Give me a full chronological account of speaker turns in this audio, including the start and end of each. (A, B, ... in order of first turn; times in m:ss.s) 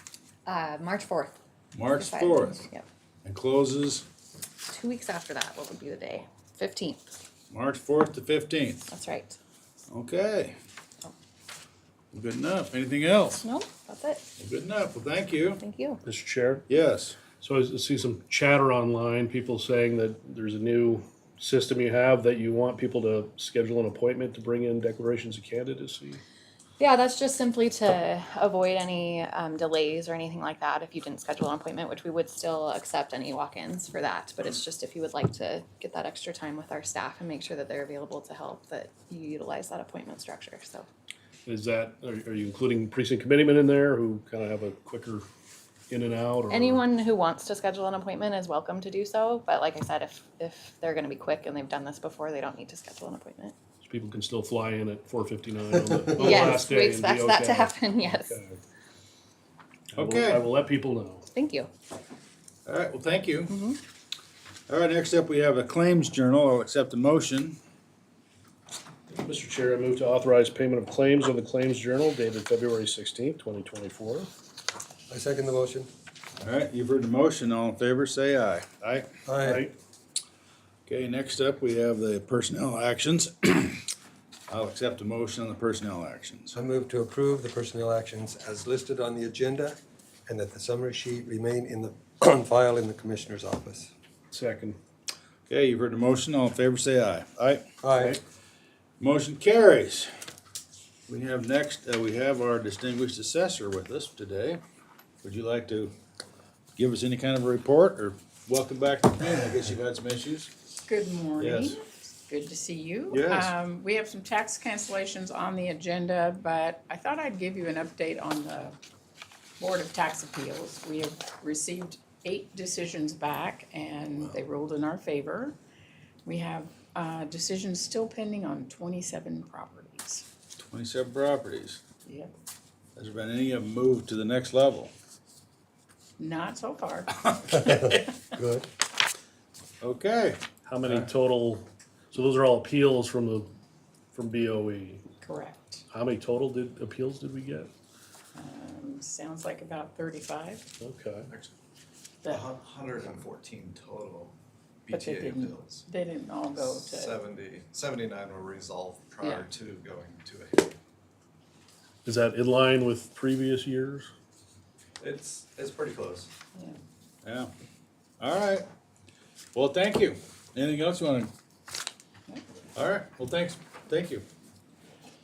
0:00.4-0:01.3 A
0:01.7-0:02.6 B
0:02.0-0:02.8 A
0:03.2-0:04.0 B
0:04.6-0:07.1 A
0:07.5-0:08.8 B
0:08.9-0:09.4 A
0:09.9-0:10.6 B
0:12.1-0:13.4 B
0:13.4-0:14.2 A
0:14.4-0:15.6 B
0:15.6-0:16.0 A
0:16.0-0:16.6 C
0:16.7-0:17.2 B
0:17.4-0:26.2 C
0:26.8-0:40.9 A
0:41.4-0:45.2 C
0:45.9-0:46.8 C
0:46.5-0:53.5 A
0:53.8-0:57.7 C
0:55.7-0:56.4 D
0:56.2-0:58.4 A
0:58.3-0:58.6 C
0:59.9-1:00.4 B
1:00.0-1:01.2 C
1:01.3-1:01.7 A
1:02.6-1:03.6 B
1:03.5-1:03.8 A
1:04.7-1:07.6 B
1:09.1-1:14.3 C
1:15.1-1:15.9 D
1:16.4-1:19.1 B
1:19.2-1:19.7 D
1:19.4-1:19.7 C
1:20.9-1:23.8 B
1:24.5-1:26.6 B
1:26.5-1:33.9 D
1:34.3-1:34.8 C
1:35.5-1:37.6 B
1:37.8-1:38.2 D
1:39.0-1:40.1 B
1:41.1-1:44.6 B
1:45.2-1:45.9 B
1:46.8-1:50.5 B
1:50.8-1:58.8 E
1:51.4-1:51.8 B
1:53.1-1:53.5 B
1:59.6-2:05.6 E
2:06.2-2:10.2 E
2:10.6-2:11.8 B
2:12.0-2:12.3 E
2:13.0-2:14.9 B
2:16.2-2:17.7 E
2:17.5-2:18.7 D
2:19.8-2:21.1 B
2:20.6-2:23.5 C
2:24.1-2:25.0 C
2:25.2-2:25.8 E
2:25.9-2:27.7 C
2:28.3-2:30.6 E
2:30.8-2:31.3 C
2:32.2-2:35.8 F
2:34.9-2:37.2 E
2:36.5-2:40.7 F
2:42.0-2:44.1 C
2:45.0-2:46.3 F
2:47.2-2:47.5 B
2:48.2-2:48.7 B
2:49.5-2:51.3 B
2:52.8-2:54.2 B